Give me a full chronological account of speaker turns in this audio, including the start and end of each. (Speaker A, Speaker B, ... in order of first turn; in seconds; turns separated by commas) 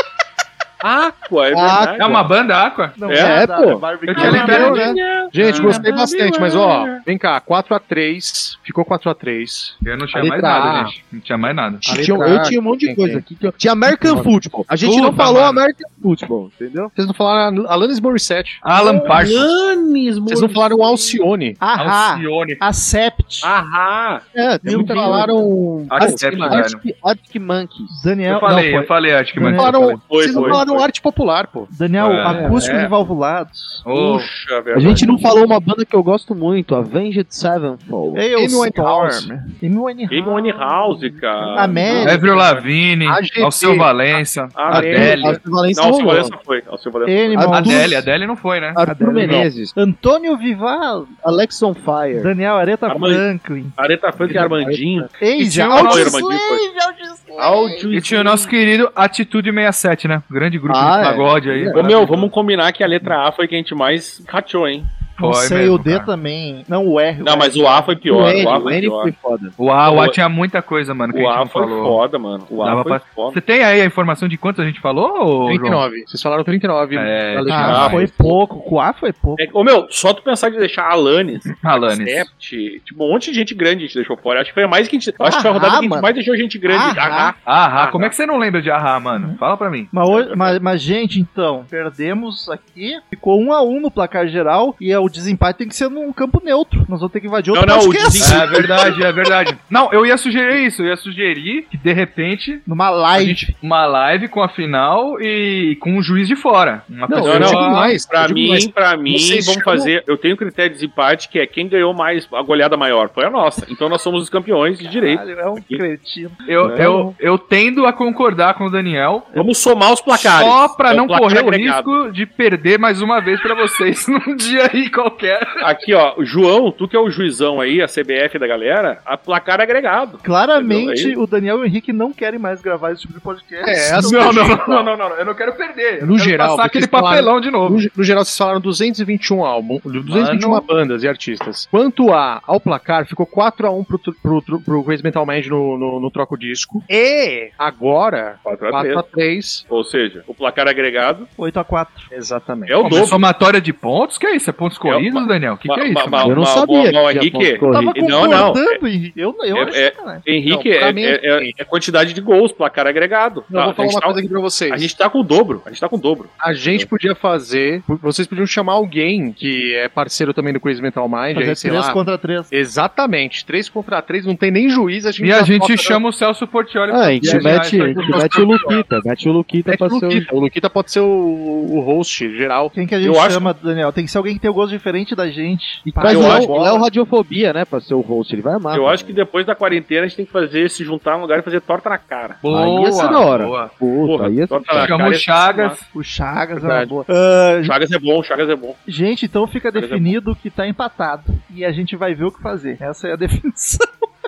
Speaker A: 0.8-2.1, Speaker B: 1.5-2.2, Speaker C: 2.0-3.0, Speaker D: 3.0-5.0, Speaker A: 3.1-7.0, Speaker B: 3.1-3.8, Speaker C: 4.1-4.9, Speaker E: 4.1-10.9, Speaker B: 4.4-5.0, Speaker C: 5.4-5.8, Speaker C: 9.8-11.9, Speaker E: 11.8-13.2, Speaker B: 11.8-16.9, Speaker E: 13.9-14.3, Speaker C: 14.8-15.6, Speaker E: 16.9-18.6, Speaker C: 18.6-19.5, Speaker D: 18.7-19.2, Speaker A: 19.0-21.2, Speaker E: 20.3-21.6, Speaker D: 21.6-23.5, Speaker C: 21.8-22.6, Speaker A: 23.4-25.2, Speaker B: 24.4-25.2, Speaker E: 24.6-26.6, Speaker D: 24.9-25.3, Speaker C: 25.9-26.8, Speaker B: 26.0-28.1, Speaker D: 27.9-30.6, Speaker C: 28.3-29.9, Speaker E: 29.5-31.7, Speaker A: 30.0-30.9, Speaker D: 31.7-33.9, Speaker C: 32.0-32.8, Speaker A: 32.2-32.9, Speaker C: 33.9-34.3, Speaker A: 33.9-35.2, Speaker B: 34.7-38.2, Speaker D: 38.1-42.2, Speaker E: 38.4-39.3, Speaker A: 40.1-42.7, Speaker C: 42.0-45.4, Speaker E: 43.1-43.9, Speaker A: 44.5-47.9, Speaker E: 44.7-45.4, Speaker B: 44.7-46.4, Speaker D: 47.0-48.1, Speaker C: 47.4-48.8, Speaker B: 48.8-49.8, Speaker D: 48.9-51.1, Speaker B: 51.2-52.3, Speaker D: 52.1-53.8, Speaker A: 52.9-53.2, Speaker A: 53.8-56.6, Speaker B: 54.3-54.8, Speaker D: 55.2-57.8, Speaker C: 55.4-56.2, Speaker B: 57.1-57.7, Speaker A: 57.4-58.5, Speaker C: 57.9-62.3, Speaker B: 60.7-61.8, Speaker A: 61.7-64.9, Speaker C: 65.2-66.1, Speaker D: 65.2-68.0, Speaker A: 67.2-69.1, Speaker B: 68.1-69.6, Speaker C: 69.6-72.0, Speaker A: 69.8-70.2, Speaker A: 71.1-73.4, Speaker C: 72.6-75.8, Speaker E: 75.5-78.1, Speaker C: 76.9-78.0, Speaker D: 77.5-79.5, Speaker A: 77.6-78.4, Speaker A: 79.4-88.1, Speaker C: 81.6-82.3, Speaker D: 85.2-86.1, Speaker D: 86.7-87.3, Speaker C: 87.5-89.9, Speaker D: 89.9-98.7, Speaker A: 90.0-90.6, Speaker A: 97.5-99.0, Speaker C: 98.2-108.0, Speaker D: 102.7-103.5, Speaker E: 107.1-109.9, Speaker A: 107.2-115.8, Speaker D: 114.8-117.1, Speaker C: 116.5-119.3, Speaker A: 119.3-121.9, Speaker C: 120.1-125.6, Speaker A: 125.6-131.2, Speaker D: 130.2-134.6, Speaker E: 133.6-134.8, Speaker C: 134.0-137.8, Speaker E: 136.0-149.7, Speaker C: 140.1-140.7, Speaker A: 148.4-149.1, Speaker A: 149.7-151.3, Speaker D: 151.4-152.1, Speaker E: 152.1-153.1, Speaker A: 152.7-153.3, Speaker C: 152.8-156.4, Speaker A: 154.8-158.8, Speaker B: 156.2-158.5, Speaker D: 157.7-160.3, Speaker A: 159.5-166.9, Speaker E: 160.5-161.6, Speaker E: 163.5-164.9, Speaker E: 166.4-176.0, Speaker D: 171.3-172.5, Speaker C: 175.2-178.8, Speaker B: 176.9-180.3, Speaker E: 177.2-178.8, Speaker E: 179.7-182.7, Speaker D: 182.7-186.5, Speaker A: 183.0-183.5, Speaker B: 185.9-189.2, Speaker A: 186.1-186.9, Speaker A: 188.7-192.4, Speaker C: 192.4-193.7, Speaker B: 192.5-195.0, Speaker A: 194.0-195.8, Speaker C: 194.8-195.8, Speaker D: 195.9-197.8, Speaker E: 196.6-196.9, Speaker A: 197.6-198.8, Speaker D: 198.9-203.9, Speaker A: 199.8-200.2